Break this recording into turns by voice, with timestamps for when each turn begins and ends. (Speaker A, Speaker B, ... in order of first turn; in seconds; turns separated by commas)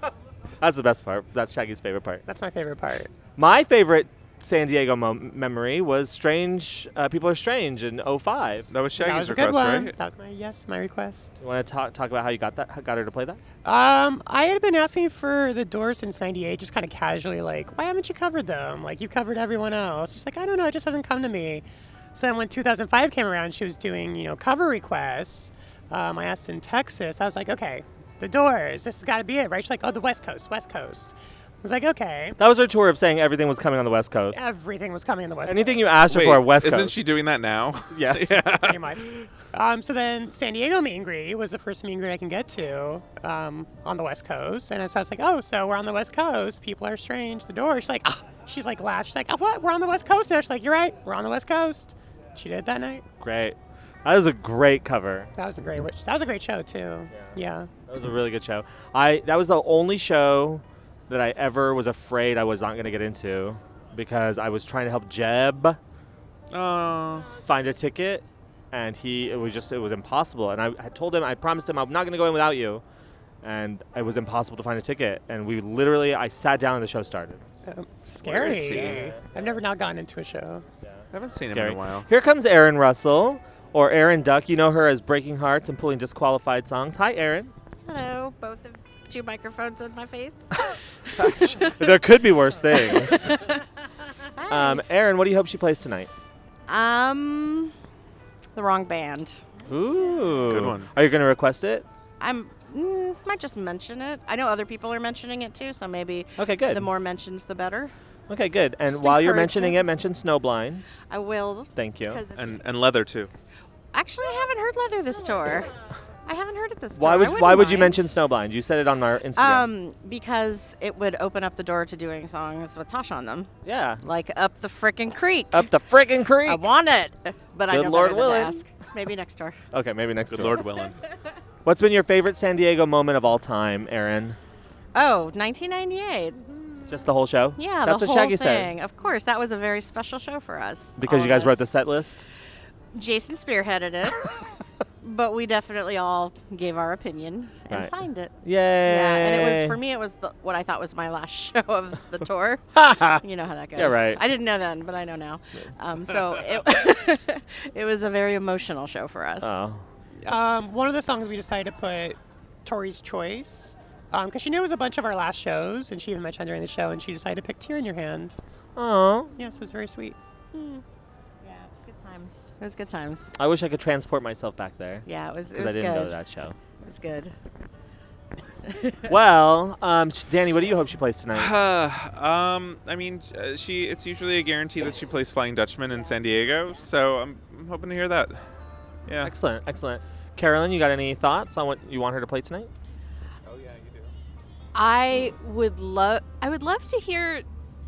Speaker A: 0.6-2.2, Speaker B: 2.3-3.1, Speaker A: 3.4-8.7, Speaker C: 8.7-9.9, Speaker B: 9.0-11.4, Speaker A: 11.4-13.4, Speaker B: 13.6-32.4, Speaker A: 32.4-34.4, Speaker B: 34.3-35.8, Speaker A: 35.5-37.0, Speaker C: 36.1-39.3, Speaker A: 37.9-38.5, Speaker B: 38.5-53.0, Speaker A: 53.2-55.3, Speaker B: 55.4-57.7, Speaker A: 57.1-65.8, Speaker C: 66.5-67.3, Speaker A: 67.5-72.8, Speaker A: 73.4-77.4, Speaker B: 77.7-80.6, Speaker C: 78.2-79.1, Speaker A: 78.6-79.5, Speaker A: 80.8-87.5, Speaker C: 81.1-82.1, Speaker D: 87.8-91.9, Speaker A: 91.2-93.3, Speaker D: 92.7-93.6, Speaker D: 94.3-94.8, Speaker A: 94.5-96.1, Speaker D: 96.7-97.7, Speaker D: 98.5-99.4, Speaker A: 99.7-101.8, Speaker C: 100.5-100.9, Speaker D: 102.2-107.9, Speaker A: 106.4-106.9, Speaker A: 108.3-110.8, Speaker D: 108.9-109.8, Speaker D: 111.0-112.6, Speaker A: 111.7-112.2, Speaker C: 112.3-113.3, Speaker D: 113.9-115.7, Speaker D: 116.2-118.1, Speaker A: 117.0-119.7, Speaker D: 119.3-123.5, Speaker A: 123.6-124.0, Speaker D: 124.0-125.7, Speaker A: 125.5-126.7, Speaker D: 126.4-129.6, Speaker A: 127.7-128.6, Speaker A: 129.7-130.7, Speaker C: 130.3-131.0, Speaker A: 131.6-134.4, Speaker D: 134.9-136.7, Speaker A: 136.9-138.7, Speaker D: 137.6-141.7, Speaker A: 141.0-142.2, Speaker D: 142.9-144.4, Speaker D: 145.0-148.3, Speaker A: 147.7-149.8, Speaker D: 148.8-159.6, Speaker A: 152.7-153.2, Speaker A: 153.7-154.2, Speaker A: 159.4-159.9, Speaker B: 160.2-168.3, Speaker A: 168.8-169.3, Speaker B: 169.3-170.2, Speaker D: 170.5-170.8, Speaker D: 171.4-171.7, Speaker E: 171.7-172.5, Speaker D: 172.6-173.3, Speaker A: 173.4-176.6, Speaker D: 175.1-176.2, Speaker D: 176.8-177.3, Speaker D: 178.7-179.0, Speaker A: 179.1-181.5, Speaker C: 181.3-188.4, Speaker C: 189.1-189.3, Speaker A: 189.2-192.7, Speaker C: 193.4-194.1, Speaker E: 194.7-197.5